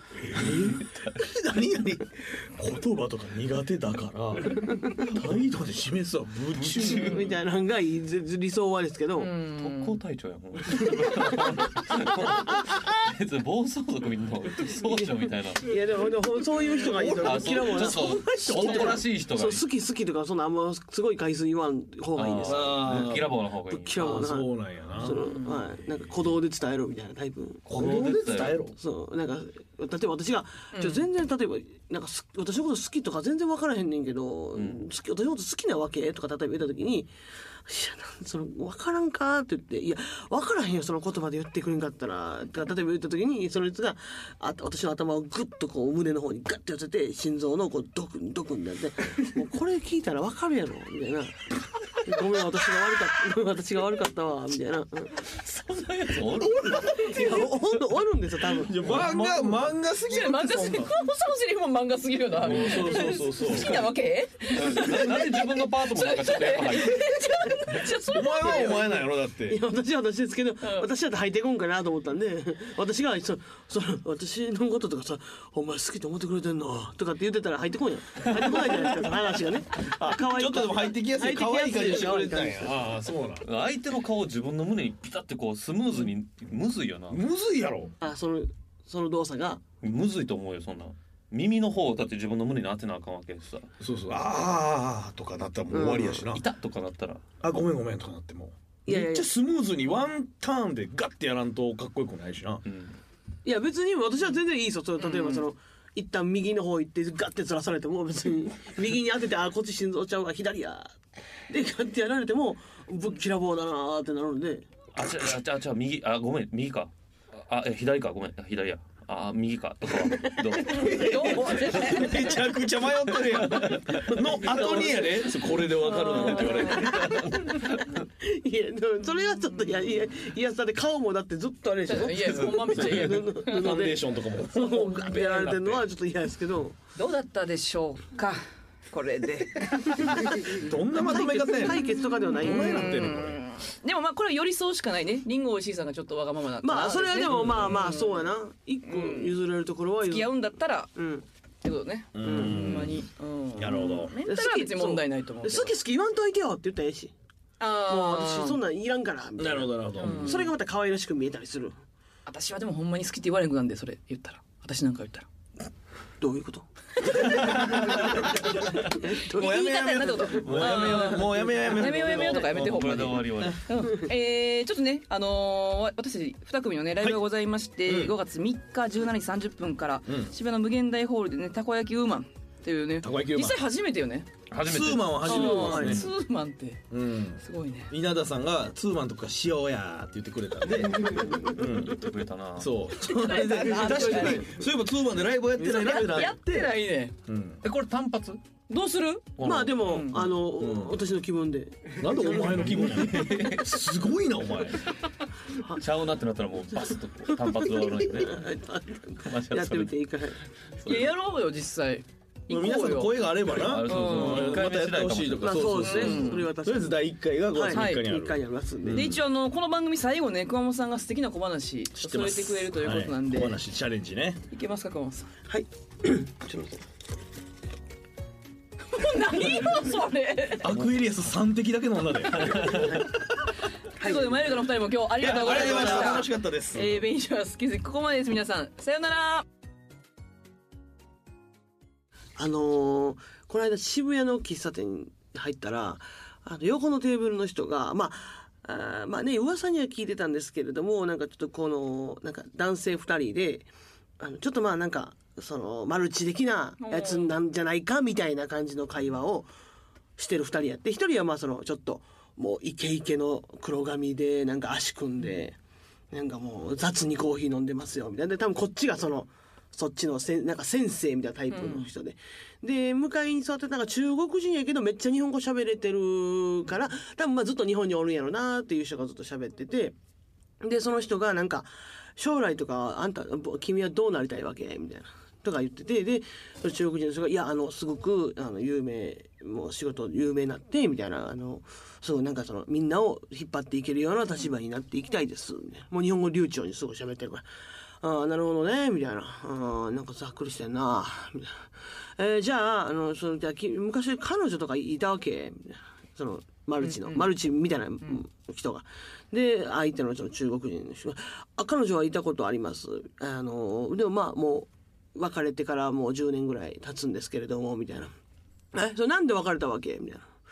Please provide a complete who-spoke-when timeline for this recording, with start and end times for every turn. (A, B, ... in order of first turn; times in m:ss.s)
0:00.3-0:07.3 A
0:00.4-0:01.2 B
0:06.6-0:07.3 B
0:07.0-0:09.3 C
0:09.2-0:10.0 D
0:09.6-0:15.7 B
0:15.6-0:23.1 C
0:16.8-0:19.0 A
0:17.2-0:19.6 B
0:22.2-0:24.2 B
0:22.4-0:23.4 A
0:23.7-0:27.7 C
0:24.0-0:25.2 A
0:25.0-0:25.7 D
0:27.7-0:28.6 B
0:27.7-0:28.8 A
0:28.8-0:37.1 C
0:30.7-0:31.1 D
0:34.6-0:34.8 B
0:37.6-0:55.3 C
0:55.2-0:57.5 B
0:56.6-0:59.3 C
0:58.5-1:00.9 A
0:59.0-0:59.5 B
1:00.0-1:08.9 D
1:02.4-1:03.9 A
1:03.5-1:03.9 B
1:04.5-1:07.9 B
1:08.0-1:09.6 A
1:08.3-1:22.8 C
1:10.6-1:10.9 D
1:18.3-1:18.8 B
1:19.8-1:23.5 A
1:23.4-1:27.2 B
1:27.1-1:27.9 A
1:28.0-1:29.6 C
1:29.8-1:33.7 B
1:33.8-1:36.4 A
1:35.7-1:36.2 C
1:36.3-1:37.2 B
1:37.4-1:42.6 A
1:38.9-1:39.3 C
1:42.6-1:43.0 B
1:43.4-1:50.9 C
1:45.0-1:45.5 D
1:51.5-1:54.7 C
1:55.0-2:02.4 B
2:00.7-2:07.2 A
2:00.7-2:02.4 D
2:03.1-2:04.9 B
2:04.2-2:05.7 C
2:05.8-2:06.9 D
2:06.0-2:08.0 B
2:06.4-2:16.8 C
2:11.9-2:13.8 D
2:12.2-2:13.2 B
2:12.7-2:14.9 A
2:14.6-2:15.2 D
2:14.9-2:15.8 B
2:17.0-2:28.3 D
2:20.3-2:21.8 A
2:21.1-2:23.0 C
2:22.4-2:23.4 A
2:26.6-2:30.3 C
2:27.2-2:27.7 A
2:28.9-2:29.4 D
2:30.0-2:30.9 D
2:31.0-2:31.2 C
2:31.6-2:35.7 D
2:32.1-2:34.2 A
2:32.2-2:32.8 C
2:34.2-2:37.1 C
2:37.6-2:38.6 D
2:37.9-2:41.8 C
2:39.4-2:40.4 A
2:40.0-2:40.5 D
2:42.3-2:45.3 D
2:46.2-2:52.4 C
2:47.1-3:04.3 D
2:47.8-2:48.5 A
2:49.3-2:53.6 A
2:50.5-2:51.2 B
2:52.4-2:53.7 B
2:57.8-2:58.2 A
3:00.1-3:00.3 A
3:03.0-3:03.6 A
3:04.5-3:06.1 B
3:04.6-3:06.1 A
3:05.2-3:06.8 D
3:05.2-3:06.0 C
3:06.9-3:16.8 A
3:07.4-3:07.9 D
3:11.0-3:11.5 C
3:11.6-3:12.7 B
3:13.0-3:14.4 D
3:13.3-3:14.6 C
3:15.6-3:17.2 D
3:17.3-3:17.6 A
3:17.6-3:18.4 B
3:18.7-3:20.3 D
3:19.4-3:19.8 B
3:19.4-3:22.7 C
3:20.1-3:21.0 A
3:22.0-3:24.8 A
3:22.7-3:23.8 B
3:25.8-3:28.5 B
3:27.3-3:30.5 C
3:29.2-3:29.9 B
3:30.8-3:31.2 B
3:30.8-3:33.2 D
3:32.5-3:39.2 A
3:33.5-3:35.9 B
3:33.8-3:34.6 D
3:35.4-3:39.1 C
3:35.8-3:36.5 D
3:37.7-3:38.1 D
3:38.9-3:43.6 D
3:41.9-3:44.4 A
3:44.5-3:45.3 D
3:45.5-3:46.8 C
3:48.9-3:50.7 D
3:50.6-3:53.0 A
3:52.3-3:53.0 B
3:54.0-3:59.4 D
3:54.0-3:54.6 C
3:55.2-3:57.1 A
3:55.2-3:56.3 C
4:02.4-4:19.5 C
4:16.8-4:17.3 D
4:20.2-4:25.6 C
4:26.1-4:40.0 C
4:31.5-4:31.9 D
4:40.6-4:57.4 C
4:58.0-5:18.1 C
5:06.8-5:07.3 D
5:18.7-5:20.3 C